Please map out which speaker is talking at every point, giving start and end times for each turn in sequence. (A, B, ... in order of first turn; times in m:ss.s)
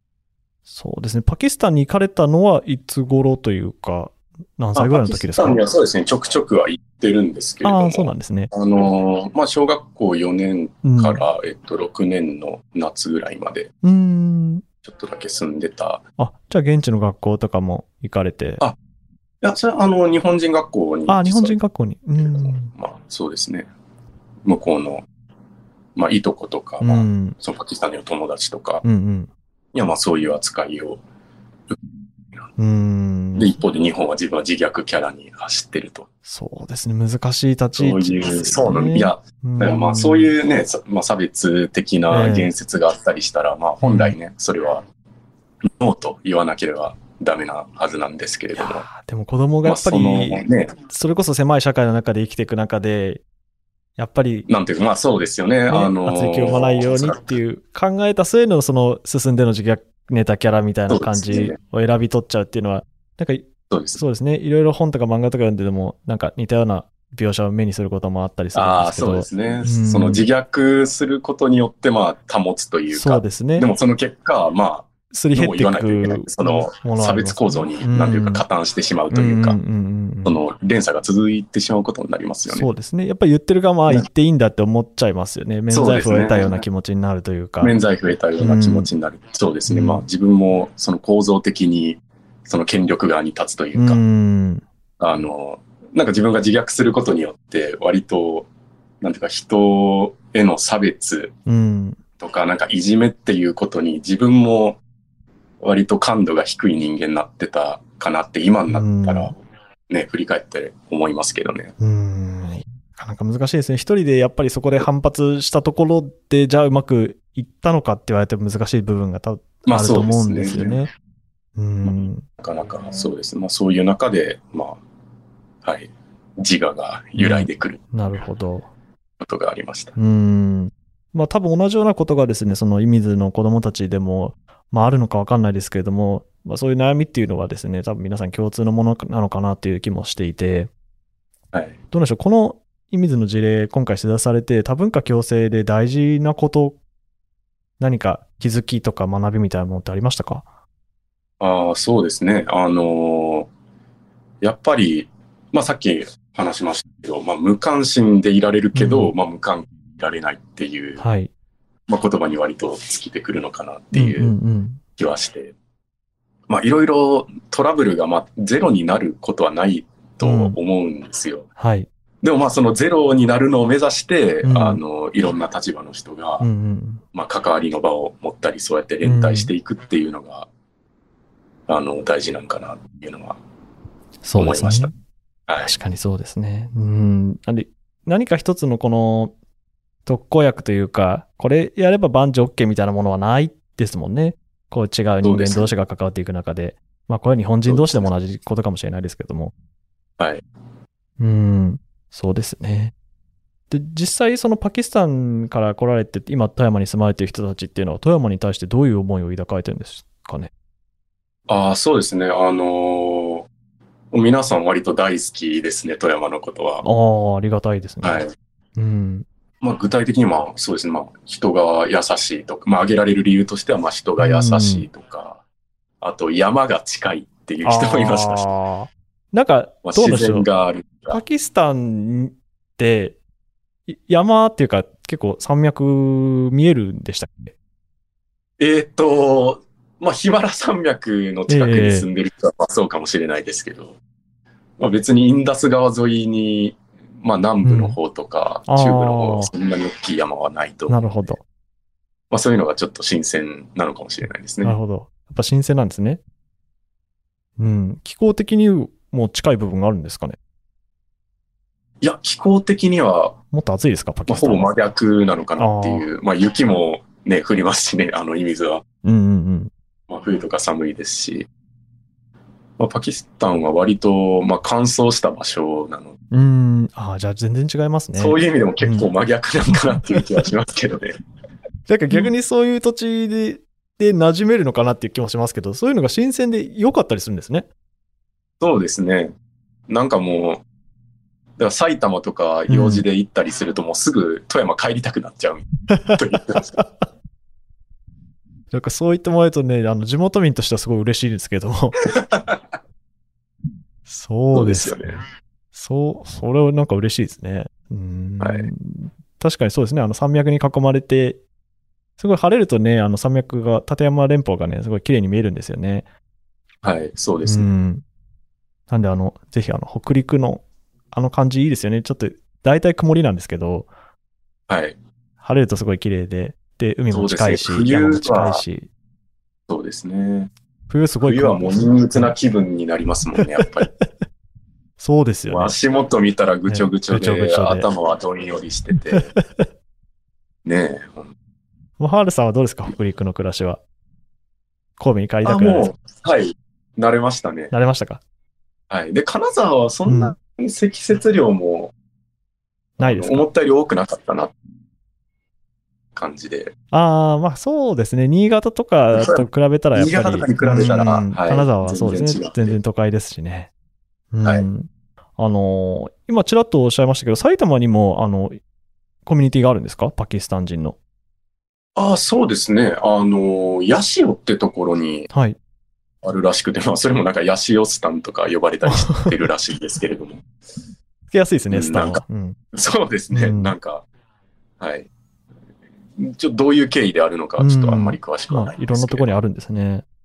0:00.7-0:05.6 A
0:04.8-0:13.7 B
0:07.6-0:08.5 A
0:10.8-0:11.3 A
0:13.8-0:14.6 A
0:14.8-0:16.0 B
0:16.2-0:18.6 A
0:19.4-0:21.6 B
0:21.1-0:22.7 A
0:22.2-0:23.7 B
0:24.4-0:25.1 B
0:26.0-0:28.8 B
0:26.8-0:27.4 A
0:28.8-0:29.3 A
0:29.7-0:31.0 B
0:32.6-0:33.6 A
0:33.4-0:36.1 B
0:36.3-0:40.3 A
0:37.8-0:44.8 B
0:42.1-0:42.5 A
0:43.8-0:44.2 A
0:45.6-0:48.9 B
0:48.6-0:53.2 A
0:49.6-0:50.7 B
0:54.0-0:54.5 A
0:54.5-0:57.2 B
0:55.7-1:10.3 A
1:00.9-1:01.6 B
1:03.7-1:04.0 B
1:08.5-1:19.6 B
1:12.9-1:13.7 A
1:15.1-1:18.4 A
1:19.1-1:20.4 A
1:20.2-1:22.7 B
1:22.5-1:27.8 A
1:25.7-1:26.6 B
1:27.6-1:34.0 B
1:28.4-1:28.9 A
1:29.7-1:30.0 A
1:33.8-1:34.6 A
1:35.0-1:38.5 B
1:39.0-1:41.3 B
1:41.5-1:42.0 A
1:42.2-1:44.8 B
1:45.6-1:49.4 B
1:48.7-1:49.3 A
1:49.9-1:51.7 B
1:51.8-2:00.9 A
1:59.7-2:00.8 B
2:01.6-2:02.2 A
2:01.8-2:04.8 B
2:05.6-2:07.8 B
2:07.2-2:08.7 A
2:09.2-2:10.0 B
2:10.0-2:20.7 A
2:21.9-2:26.8 A
2:27.8-2:30.4 A
2:31.4-2:33.5 B
2:34.4-2:41.0 B
2:38.8-2:39.1 A
2:41.0-2:41.3 A
2:41.9-2:44.3 B
2:43.9-2:44.8 A
2:45.0-2:45.5 B
2:46.5-2:51.5 B
2:50.2-2:50.6 A
2:51.6-2:51.9 A
2:52.2-2:56.5 B
2:54.4-2:54.8 A
2:56.4-2:57.0 A
2:57.1-3:00.5 B
2:59.0-2:59.5 A
3:01.7-3:03.4 B
3:04.2-3:04.9 A
3:04.4-3:04.9 B
3:05.5-3:05.7 B
3:05.6-3:09.3 A
3:10.1-3:19.5 A
3:15.2-3:15.7 B
3:17.7-3:18.1 B
3:20.2-3:20.4 B
3:21.2-3:22.9 A
3:23.7-3:30.5 A
3:31.5-3:33.5 B
3:34.1-3:36.8 B
3:36.8-3:39.3 A
3:38.0-3:38.3 B
3:39.6-3:45.4 B
3:44.2-3:44.9 A
3:46.0-3:48.5 B
3:47.6-3:50.5 A
3:49.8-3:51.2 B
3:51.1-3:53.2 A
3:53.9-3:57.5 A
3:58.6-4:04.0 B
4:01.5-4:02.1 A
4:04.8-4:11.0 B
4:07.6-4:08.0 A
4:08.7-4:09.5 A
4:10.9-4:11.4 A
4:12.3-4:14.8 B
4:14.6-4:16.2 A
4:17.6-4:20.4 A
4:22.0-4:23.4 B
4:23.5-4:24.7 A
4:24.3-4:28.8 B
4:25.6-4:26.1 A
4:29.0-4:29.7 A
4:30.1-4:31.5 B
4:32.8-4:36.2 B
4:36.3-4:39.1 A
4:38.2-4:41.2 B
4:41.9-4:47.7 A
4:48.6-4:49.4 B
4:49.9-4:50.6 B
4:51.6-4:56.8 B
4:52.7-4:53.0 A
4:58.7-5:02.0 A
5:02.2-5:02.6 B
5:04.1-5:05.0 A
5:04.5-5:05.2 B
5:05.7-5:11.4 A
5:08.4-5:08.7 B
5:12.2-5:16.1 A
5:16.8-5:17.7 B
5:17.4-5:18.0 A
5:18.9-5:23.9 A
5:24.7-5:25.0 B
5:25.4-5:28.9 A
5:27.1-5:28.6 B
5:29.7-5:30.5 B
5:30.9-5:32.4 A
5:31.2-5:33.9 B
5:33.4-5:34.1 A
5:35.0-5:35.8 A
5:35.5-5:39.3 B
5:36.7-5:37.9 A
5:39.1-5:39.7 A
5:40.6-5:41.3 B
5:42.0-5:43.8 A
5:45.0-5:45.9 A
5:45.4-5:47.7 B
5:47.7-5:48.2 A
5:48.9-5:51.9 B
5:50.1-5:50.4 A
5:53.0-5:54.5 B
5:53.0-5:53.5 A
5:56.2-5:56.7 B
5:56.9-6:03.7 A
5:59.1-6:02.8 B
6:04.3-6:08.6 A
6:09.3-6:11.0 A
6:12.0-6:15.3 B
6:15.3-6:15.6 A
6:16.2-6:20.4 B
6:18.9-6:19.4 A
6:21.3-6:22.6 A
6:21.7-6:24.0 B
6:23.3-6:23.8 A
6:24.8-6:25.1 B
6:26.2-6:29.4 B
6:27.6-6:30.0 A